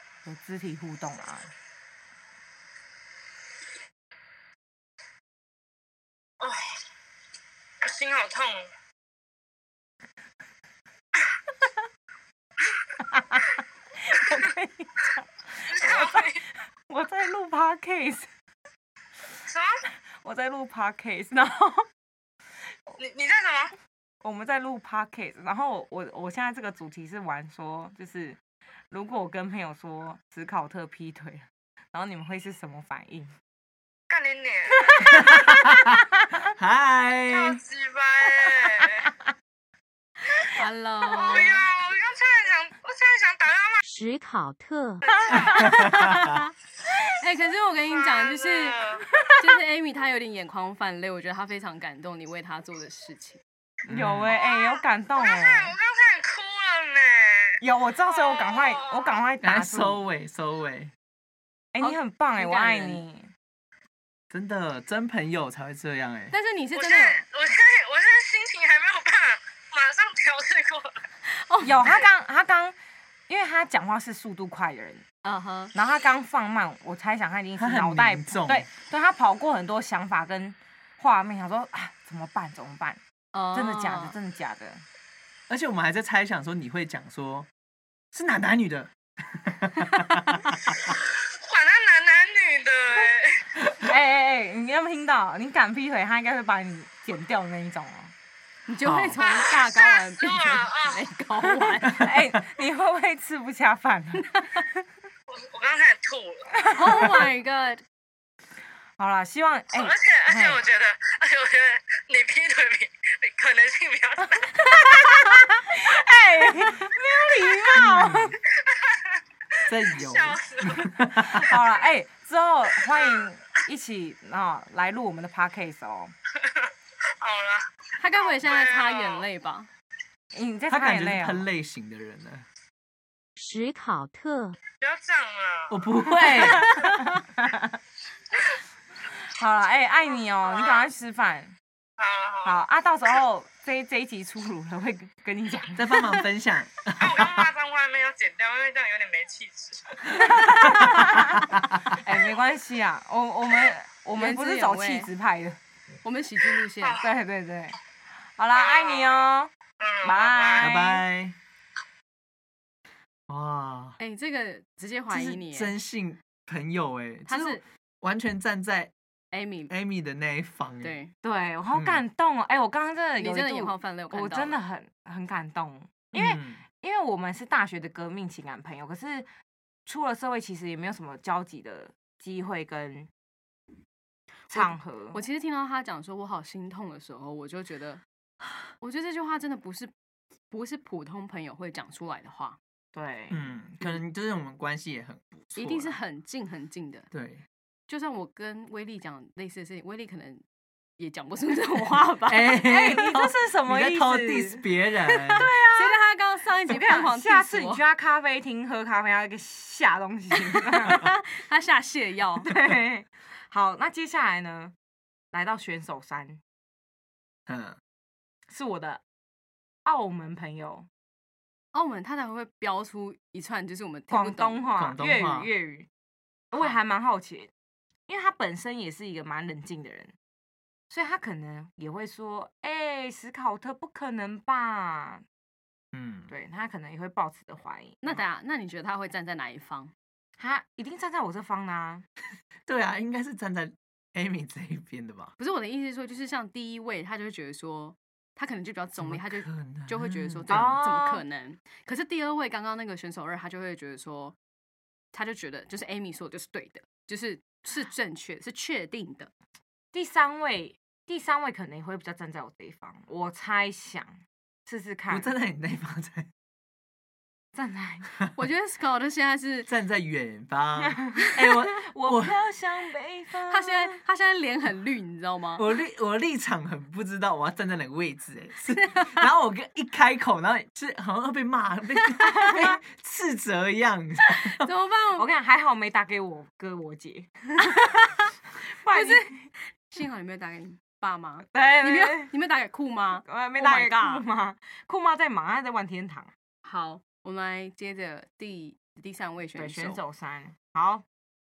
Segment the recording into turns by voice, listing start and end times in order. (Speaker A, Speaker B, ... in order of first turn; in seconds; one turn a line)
Speaker A: 0.2-1.5
Speaker B: 7.8-8.7
Speaker A: 13.1-13.4
Speaker A: 14.0-18.3
Speaker B: 15.7-16.4
Speaker B: 19.5-19.8
Speaker A: 20.2-21.9
Speaker B: 23.0-23.7
Speaker A: 24.2-28.4
Speaker A: 28.9-33.3
Speaker B: 34.1-35.0
Speaker A: 34.9-35.8
Speaker C: 35.1-35.8
Speaker C: 36.5-37.6
Speaker B: 37.3-39.1
Speaker D: 40.5-41.6
Speaker B: 41.0-43.8
Speaker E: 43.8-45.2
Speaker D: 45.3-46.5
Speaker C: 45.6-46.3
Speaker D: 47.1-53.4
Speaker B: 48.0-49.0
Speaker C: 53.9-54.3
Speaker A: 53.9-55.7
Speaker B: 54.3-59.2
Speaker A: 57.6-60.0
Speaker C: 59.4-60.9
Speaker A: 61.7-63.3
Speaker D: 61.8-63.0
Speaker C: 64.3-66.3
Speaker D: 66.3-67.2
Speaker B: 66.7-71.0
Speaker D: 71.3-72.0
Speaker A: 71.6-72.7
Speaker A: 73.3-75.0
Speaker D: 75.2-75.7
Speaker A: 75.7-83.0
Speaker C: 77.6-78.7
Speaker D: 83.3-84.2
Speaker A: 83.5-84.8
Speaker C: 85.5-87.5
Speaker C: 88.1-90.8
Speaker B: 91.2-93.4
Speaker A: 93.8-98.1
Speaker D: 98.7-102.1
Speaker C: 98.8-99.2
Speaker B: 99.2-101.0
Speaker A: 101.4-104.7
Speaker C: 101.8-102.1
Speaker B: 105.3-106.6
Speaker D: 106.6-107.8
Speaker A: 106.6-107.2
Speaker A: 109.0-110.6
Speaker B: 109.7-114.8
Speaker A: 114.8-118.4
Speaker C: 117.7-118.3
Speaker C: 119.7-121.5
Speaker B: 120.0-120.9
Speaker A: 121.2-126.1
Speaker B: 127.2-127.7
Speaker D: 128.0-129.7
Speaker B: 128.2-129.2
Speaker A: 130.3-131.5
Speaker C: 130.7-132.4
Speaker E: 133.3-134.6
Speaker B: 134.8-136.2
Speaker C: 135.7-136.9
Speaker A: 136.2-137.8
Speaker A: 139.2-141.5
Speaker B: 140.4-140.8
Speaker B: 142.0-142.6
Speaker A: 142.4-146.2
Speaker C: 145.8-147.5
Speaker B: 147.0-150.1
Speaker A: 150.1-155.6
Speaker D: 154.1-155.1
Speaker D: 156.0-157.0
Speaker A: 157.0-157.8
Speaker A: 158.4-159.5
Speaker B: 158.5-159.2
Speaker B: 159.8-160.8
Speaker A: 160.0-161.0
Speaker C: 160.6-161.4
Speaker C: 163.3-164.0
Speaker D: 164.0-165.7
Speaker C: 165.1-168.9
Speaker D: 167.3-167.6
Speaker D: 169.3-169.7
Speaker C: 169.7-170.9
Speaker D: 170.8-171.1
Speaker A: 171.2-179.3
Speaker C: 171.7-172.0
Speaker D: 173.2-174.6
Speaker C: 176.1-176.6
Speaker A: 179.8-183.1
Speaker A: 184.5-185.2
Speaker D: 184.5-188.0
Speaker D: 188.8-189.9
Speaker D: 190.5-192.6
Speaker A: 192.9-194.0
Speaker C: 193.3-196.0
Speaker D: 195.5-197.1
Speaker C: 197.1-197.4
Speaker D: 197.9-200.4
Speaker D: 201.0-202.6
Speaker C: 202.2-205.5
Speaker A: 202.5-204.6
Speaker D: 205.2-207.8
Speaker A: 205.3-206.0
Speaker A: 206.7-211.1
Speaker D: 210.5-212.5
Speaker A: 212.4-214.7
Speaker A: 215.3-216.4
Speaker C: 217.5-217.8
Speaker A: 218.5-219.0
Speaker A: 219.8-220.9
Speaker D: 221.7-224.7
Speaker A: 224.1-225.9
Speaker C: 224.8-225.5
Speaker A: 226.5-227.5
Speaker A: 228.1-230.1
Speaker A: 230.9-235.2
Speaker C: 235.9-236.3
Speaker A: 236.3-238.2
Speaker D: 238.0-239.9
Speaker A: 240.4-242.0
Speaker C: 242.7-245.3
Speaker D: 245.4-254.3
Speaker C: 249.0-250.8
Speaker A: 250.5-251.2
Speaker D: 255.1-259.3
Speaker A: 259.9-265.3
Speaker C: 265.1-266.3
Speaker A: 267.5-268.2
Speaker D: 268.4-269.7
Speaker C: 269.7-272.4
Speaker A: 271.0-274.0
Speaker D: 273.5-275.7
Speaker C: 275.6-284.7
Speaker D: 284.5-285.3
Speaker A: 285.1-288.1
Speaker A: 288.7-289.5
Speaker D: 288.9-294.2
Speaker A: 291.5-292.3
Speaker A: 293.2-296.3
Speaker D: 296.6-300.0
Speaker A: 299.5-301.0